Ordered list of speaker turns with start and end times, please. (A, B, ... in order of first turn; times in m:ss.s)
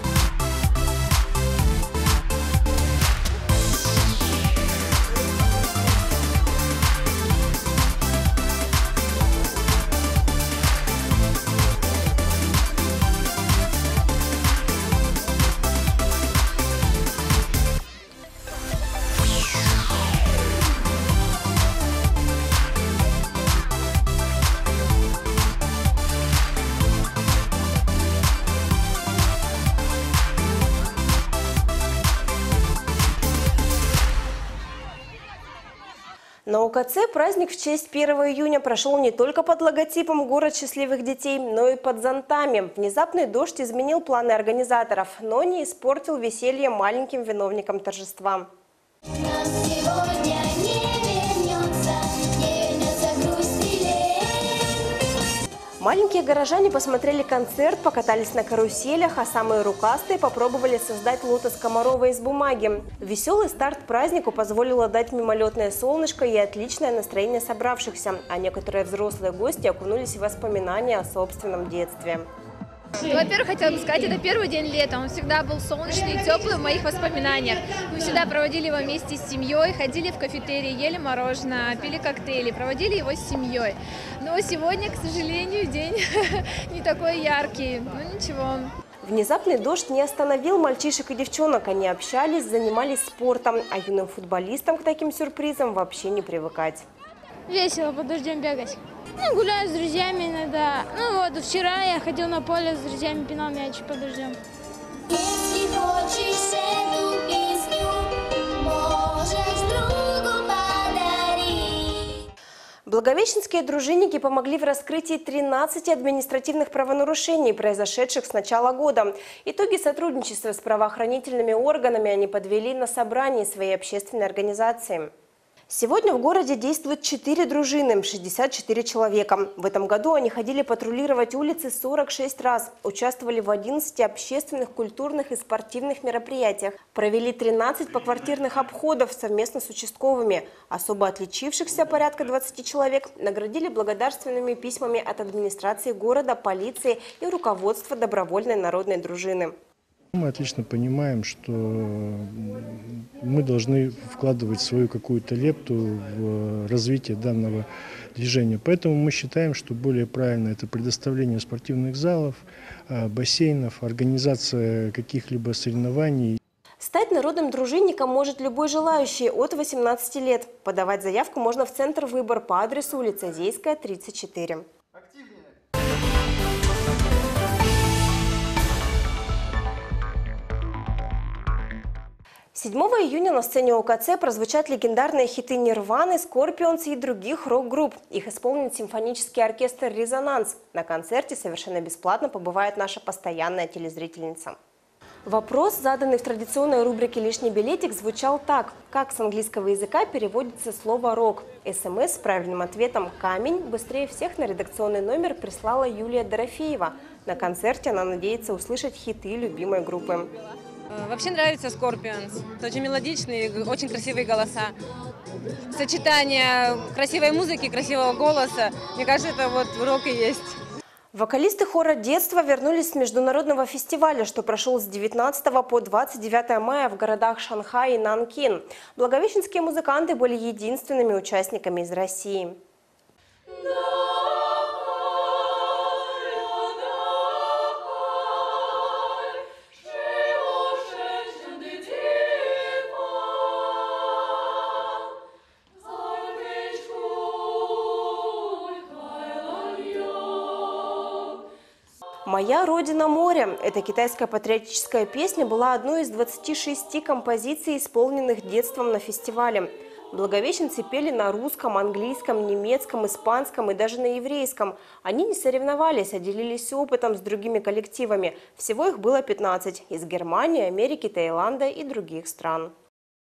0:36.5-0:48.5 A
0:49.2-0:54.7 B
0:55.8-1:12.3 A
1:13.0-1:28.7 C
1:29.0-1:36.9 A
1:37.5-1:44.4 D
1:45.1-1:52.1 B
1:52.9-2:05.1 A
2:05.7-2:29.6 A
2:30.2-2:46.4 E
2:46.8-2:54.7 A
3:02.5-3:14.6 A
3:15.2-3:30.3 A
3:31.0-3:34.7 F
3:35.7-3:40.6 F
3:41.1-3:52.6 A
4:12.2-4:32.7 A